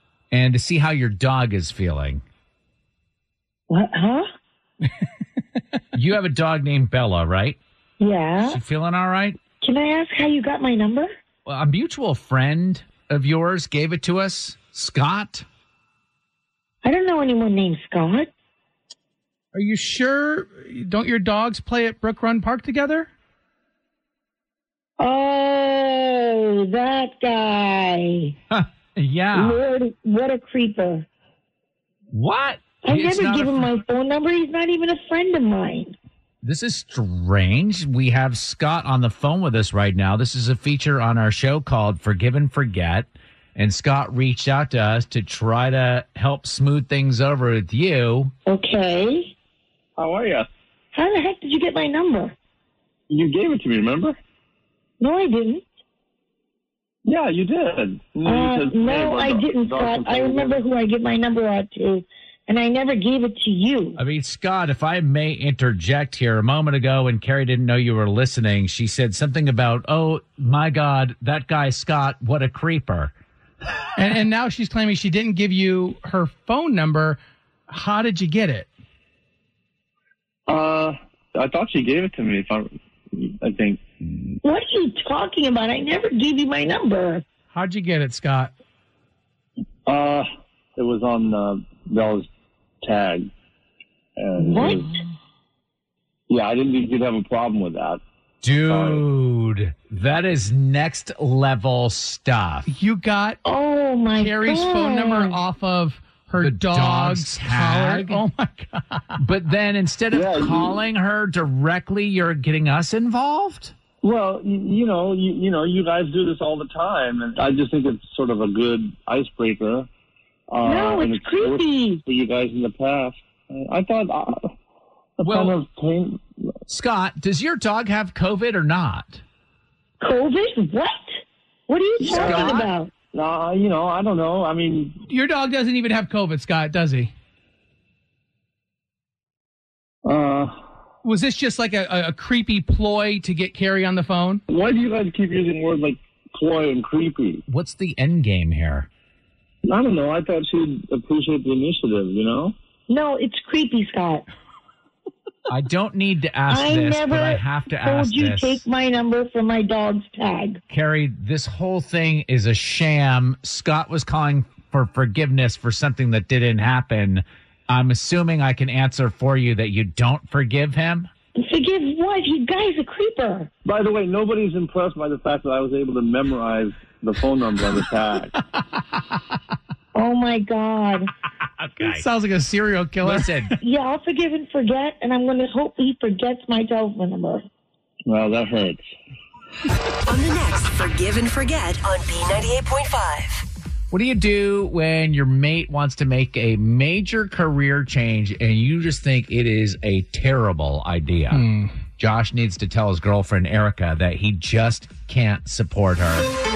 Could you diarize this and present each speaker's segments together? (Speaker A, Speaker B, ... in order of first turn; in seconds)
Speaker A: 0.3-2.2, 5.9-7.6, 8.4-9.4, 11.4-15.4, 28.5-29.6, 32.1-33.7, 36.4-48.3, 64.0-73.1, 98.4-102.7, 106.4-108.2, 109.2-113.7, 125.3-125.6, 126.7-129.2, 132.1-132.7, 147.5-148.9, 155.5-158.6, 160.7-171.1, 181.4-182.1, 183.0-183.5, 193.9-201.5, 202.0-206.3
Speaker B: 3.7-4.2, 8.0-8.6, 9.6-11.1, 16.8-18.3, 25.0-28.3, 29.3-31.1, 32.8-36.0, 48.5-49.3, 50.9-52.3, 55.0-55.6, 58.2-64.0, 84.4-87.2, 94.5-94.9, 103.4-105.4, 120.6-122.0, 130.0-131.0, 131.7-132.9, 152.9-154.2, 156.5-160.6, 171.4-173.5, 179.9-181.1, 183.6-187.5
Speaker C: 19.5-23.1, 74.0-78.7, 87.5-88.5, 102.7-103.4, 104.2-109.2, 135.1-137.1, 141.0-144.4, 181.8-183.5, 201.3-201.7
Speaker D: 50.0-50.5, 53.1-54.2, 57.0-60.6, 80.5-83.8, 89.9-92.3, 92.8-93.3, 94.2-94.9, 96.3-98.0, 98.7-99.0, 110.1-110.8, 114.0-119.9, 120.5-124.4, 125.2-126.2, 132.0-135.0, 140.1-140.5, 144.5-147.4, 149.6-152.5, 173.6-178.3, 188.1-188.8
Speaker E: 190.1-193.4